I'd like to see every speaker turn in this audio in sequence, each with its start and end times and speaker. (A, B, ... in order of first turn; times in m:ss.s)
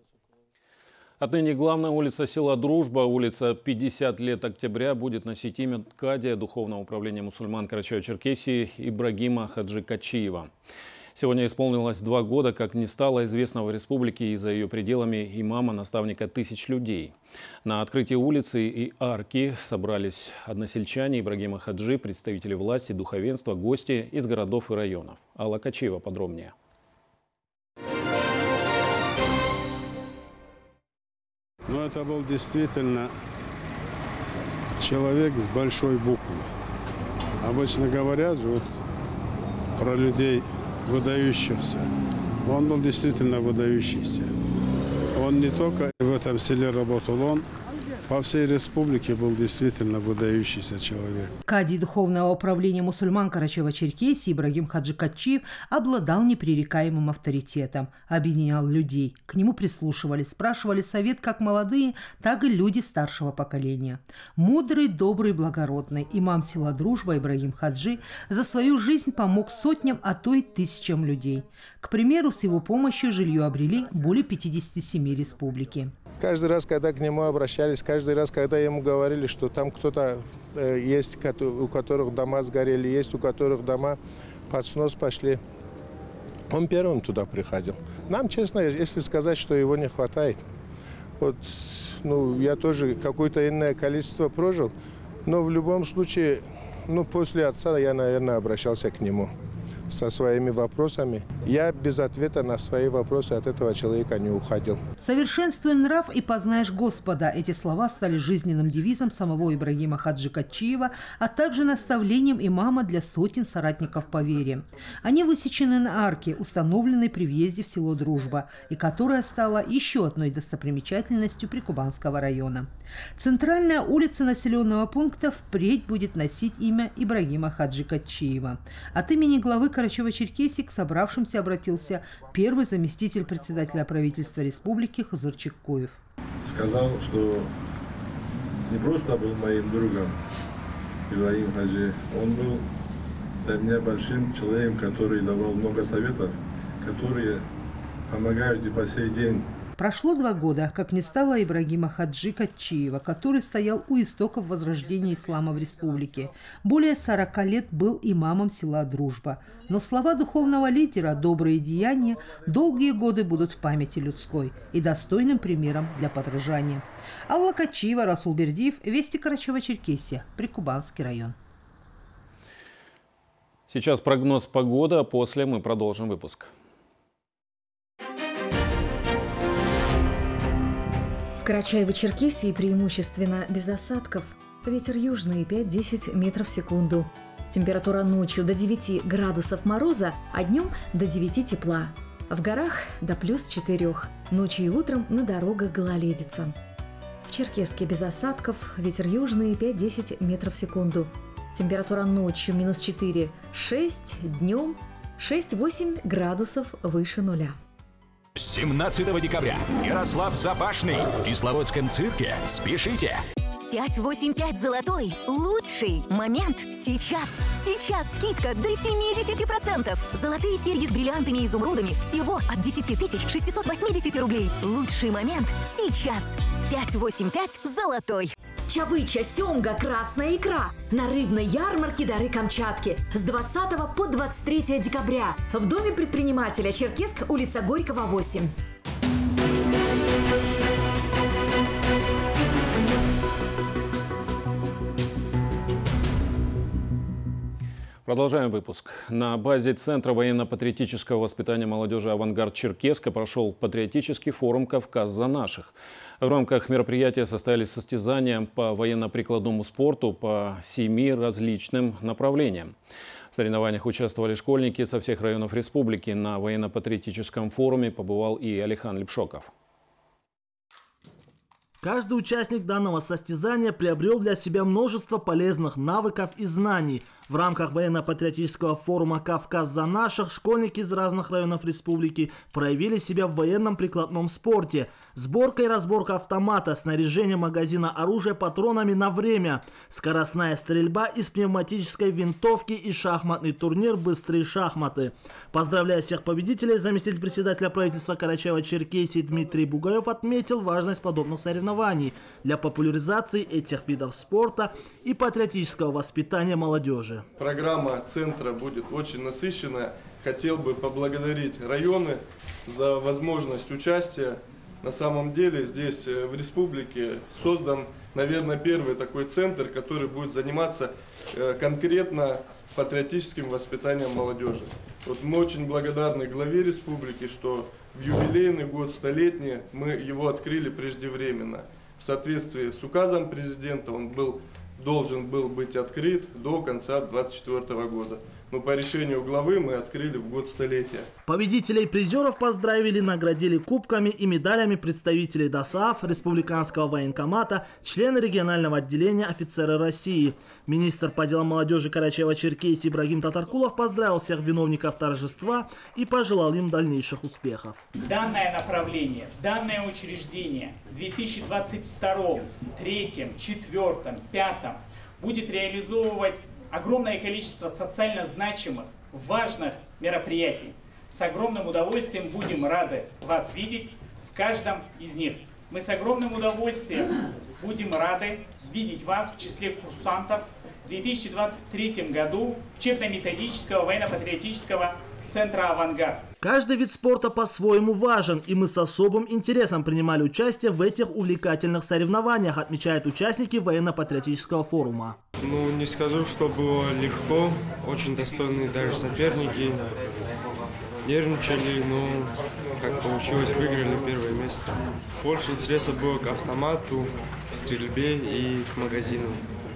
0:01.2-0:10.5 A
0:11.2-0:17.1 A
0:17.6-0:26.5 A
0:31.7-0:33.1 B
0:34.8-0:36.5 B
0:37.4-0:38.7 B
0:39.8-0:41.8 B
0:42.4-0:44.3 B
0:45.1-0:47.4 B
0:48.1-0:51.3 B
0:51.5-1:15.8 C
1:15.8-1:24.0 D
1:24.5-1:25.4 D
1:26.5-1:30.4 D
1:31.2-1:34.7 D
1:35.2-1:39.3 D
1:39.9-1:45.1 D
1:45.1-2:16.0 C
2:16.4-2:17.5 E
2:18.7-2:20.1 E
2:21.1-2:22.6 E
2:23.4-2:27.4 E
2:28.1-2:29.5 E
2:29.8-2:51.3 C
2:53.7-2:56.5 A
3:01.4-3:16.5 F
3:17.3-3:27.6 F
3:28.4-3:33.2 G
3:33.7-3:48.3 H
3:48.7-3:58.5 F
4:08.0-4:22.7 A
4:23.3-4:29.5 A
4:31.8-5:07.2 I
5:07.4-5:41.1 J
5:41.3-5:57.8 I
5:58.0-6:26.2 K
6:26.4-6:35.2 I
6:35.4-6:40.0 L
6:41.0-6:49.5 L